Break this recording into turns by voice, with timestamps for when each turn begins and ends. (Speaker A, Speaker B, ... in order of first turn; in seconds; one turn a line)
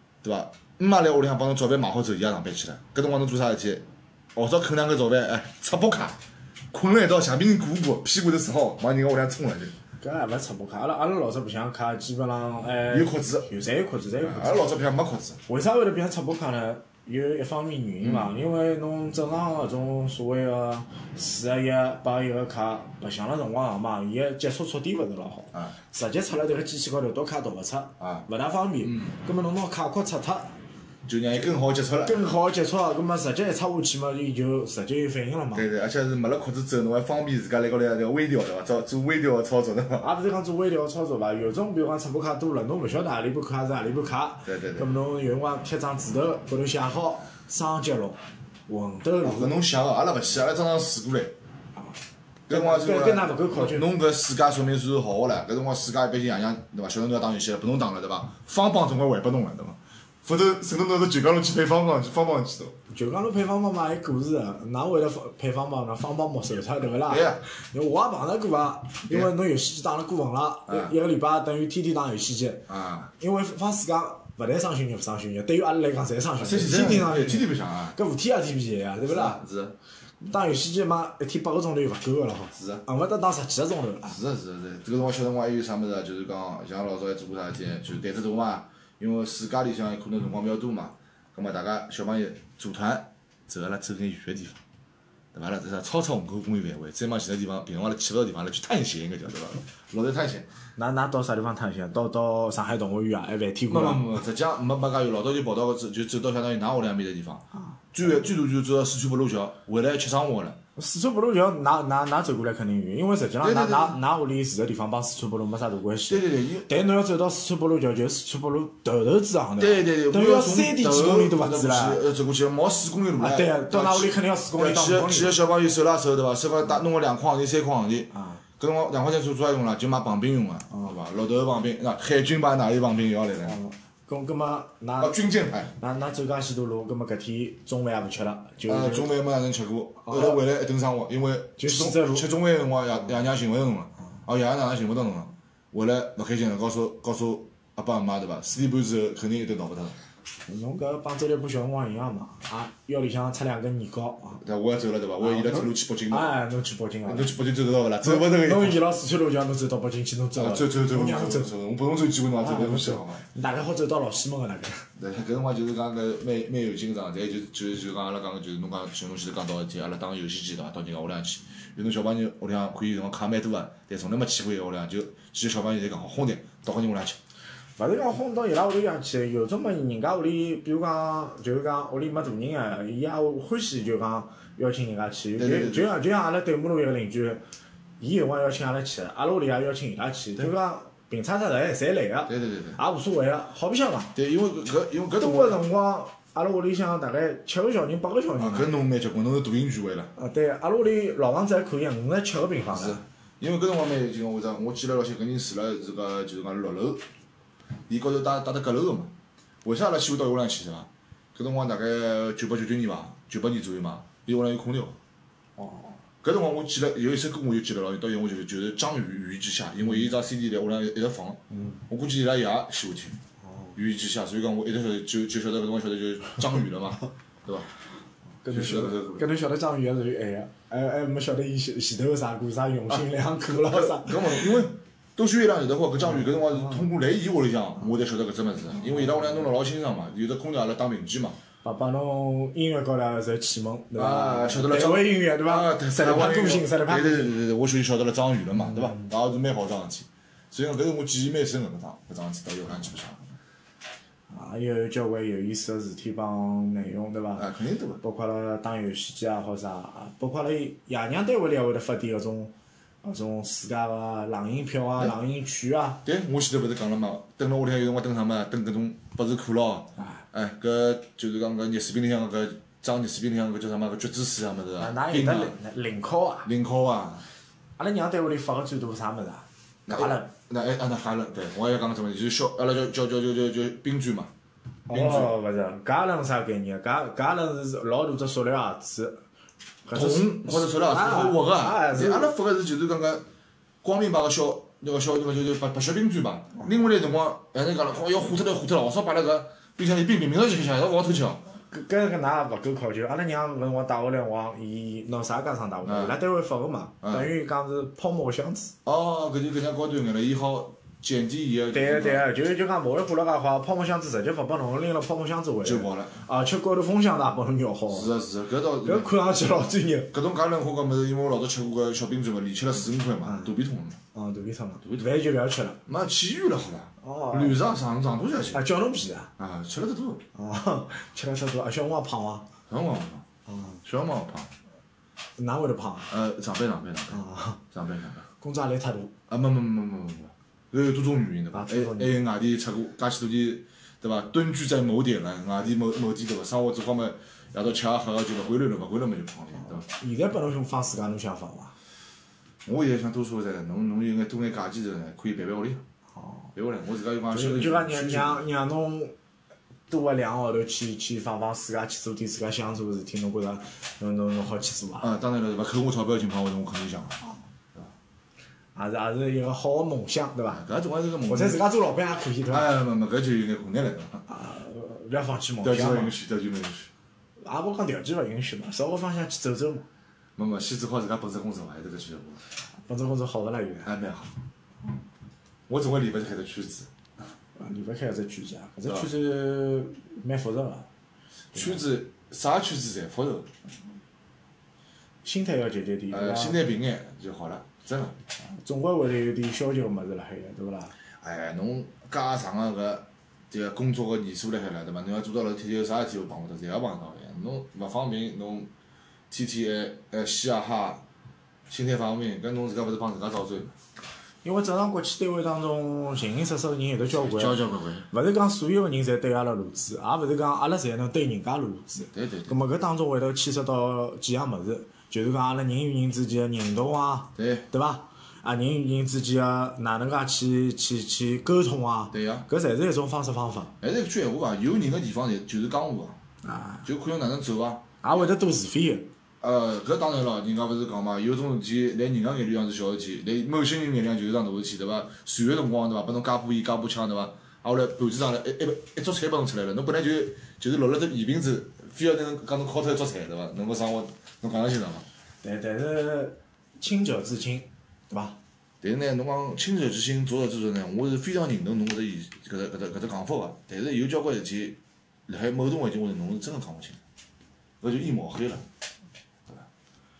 Speaker A: 0.2-6.2
Speaker A: 6.7-9.7
Speaker B: 10.0-14.7
Speaker A: 12.9-13.5
Speaker A: 14.2-15.4
Speaker B: 15.5-30.5
Speaker A: 18.0-18.3
Speaker A: 28.0-28.2
Speaker A: 28.8-29.1
Speaker A: 31.1-32.2
Speaker B: 32.0-35.6
Speaker A: 35.5-40.1
Speaker B: 40.0-49.5
Speaker A: 44.4-44.9
Speaker A: 49.2-51.3
Speaker A: 52.5-62.8
Speaker B: 52.5-53.9
Speaker B: 62.9-79.4
Speaker A: 67.1-67.4
Speaker A: 70.7-70.9
Speaker A: 72.7-73.1
Speaker A: 76.4-78.0
Speaker A: 79.1-79.8
Speaker B: 80.2-84.2
Speaker A: 82.5-82.8
Speaker A: 84.0-94.6
Speaker A: 95.3-100.5
Speaker B: 100.8-104.2
Speaker A: 103.7-110.6
Speaker B: 110.8-122.0
Speaker A: 113.4-114.0
Speaker A: 116.1-116.8
Speaker A: 119.6-133.6
Speaker B: 123.2-125.4
Speaker B: 128.1-128.4
Speaker B: 133.4-135.2
Speaker A: 135.0-135.7
Speaker B: 135.7-139.1
Speaker A: 138.7-150.0
Speaker B: 140.0-140.4
Speaker B: 141.6-142.3
Speaker B: 150.5-154.4
Speaker A: 154.4-156.3
Speaker B: 155.2-157.3
Speaker A: 157.1-158.8
Speaker B: 158.0-161.5
Speaker A: 160.3-163.2
Speaker B: 162.4-164.8
Speaker A: 164.9-177.2
Speaker B: 177.8-187.4
Speaker A: 185.4-185.9
Speaker B: 188.0-194.1
Speaker A: 192.3-192.8
Speaker A: 194.1-195.6
Speaker B: 195.2-198.7
Speaker A: 198.4-200.1
Speaker B: 200.2-203.0
Speaker A: 202.7-207.0
Speaker A: 207.9-209.1
Speaker A: 209.6-215.0
Speaker B: 215.6-216.0
Speaker A: 216.2-223.2
Speaker B: 221.5-221.8
Speaker B: 223.4-223.8
Speaker A: 223.8-227.7
Speaker B: 228.4-234.5
Speaker A: 228.5-229.3
Speaker A: 233.5-241.4
Speaker B: 236.0-236.8
Speaker B: 241.6-247.3
Speaker A: 243.9-253.3
Speaker B: 254.3-257.4
Speaker A: 257.4-258.0
Speaker B: 258.0-266.0
Speaker A: 266.0-275.5
Speaker B: 274.8-276.5
Speaker A: 276.4-277.2
Speaker B: 277.8-280.3
Speaker A: 279.9-284.3
Speaker B: 284.9-289.2
Speaker A: 284.9-285.3
Speaker B: 289.9-292.3
Speaker A: 289.9-293.2
Speaker A: 293.8-301.4
Speaker B: 301.7-308.7
Speaker A: 305.9-306.1
Speaker A: 307.0-307.3
Speaker A: 308.8-312.2
Speaker B: 311.7-318.1
Speaker A: 315.6-316.2
Speaker A: 317.9-319.1
Speaker B: 318.8-320.1
Speaker A: 320.1-324.0
Speaker B: 323.2-323.5
Speaker B: 324.1-325.8
Speaker A: 325.9-328.6
Speaker B: 327.0-327.6
Speaker B: 328.5-329.3
Speaker A: 329.4-330.2
Speaker B: 330.3-332.5
Speaker A: 332.7-333.2
Speaker B: 333.5-333.8
Speaker A: 333.8-334.5
Speaker B: 335.4-336.1
Speaker A: 336.1-337.2
Speaker B: 337.1-337.6
Speaker A: 337.7-338.2
Speaker B: 338.4-339.1
Speaker A: 339.3-349.9
Speaker B: 341.5-342.1
Speaker B: 349.8-351.7
Speaker A: 352.6-355.8
Speaker B: 356.2-356.4
Speaker A: 356.5-358.4
Speaker B: 357.3-359.1
Speaker B: 359.9-365.1
Speaker A: 365.0-367.2
Speaker B: 368.7-370.6
Speaker A: 370.5-371.6
Speaker B: 371.3-372.7
Speaker A: 372.5-374.2
Speaker B: 374.3-376.1
Speaker A: 375.6-376.9
Speaker B: 377.4-379.9
Speaker A: 380.4-382.4
Speaker B: 382.9-383.9
Speaker A: 383.8-384.3
Speaker A: 385.7-386.9
Speaker B: 387.6-390.9
Speaker A: 391.5-393.5
Speaker B: 391.6-391.8
Speaker B: 395.2-396.6
Speaker A: 396.1-398.2
Speaker B: 398.5-400.9
Speaker A: 401.2-408.7
Speaker A: 409.3-411.0
Speaker A: 411.7-413.7
Speaker B: 414.4-433.7
Speaker A: 417.1-418.1
Speaker A: 422.1-422.5
Speaker A: 427.4-427.7
Speaker A: 432.1-432.5
Speaker A: 433.8-436.2
Speaker B: 436.4-436.8
Speaker A: 436.8-438.3
Speaker B: 438.0-439.1
Speaker A: 439.4-455.1
Speaker B: 455.4-458.4
Speaker A: 458.8-467.0
Speaker A: 467.8-468.6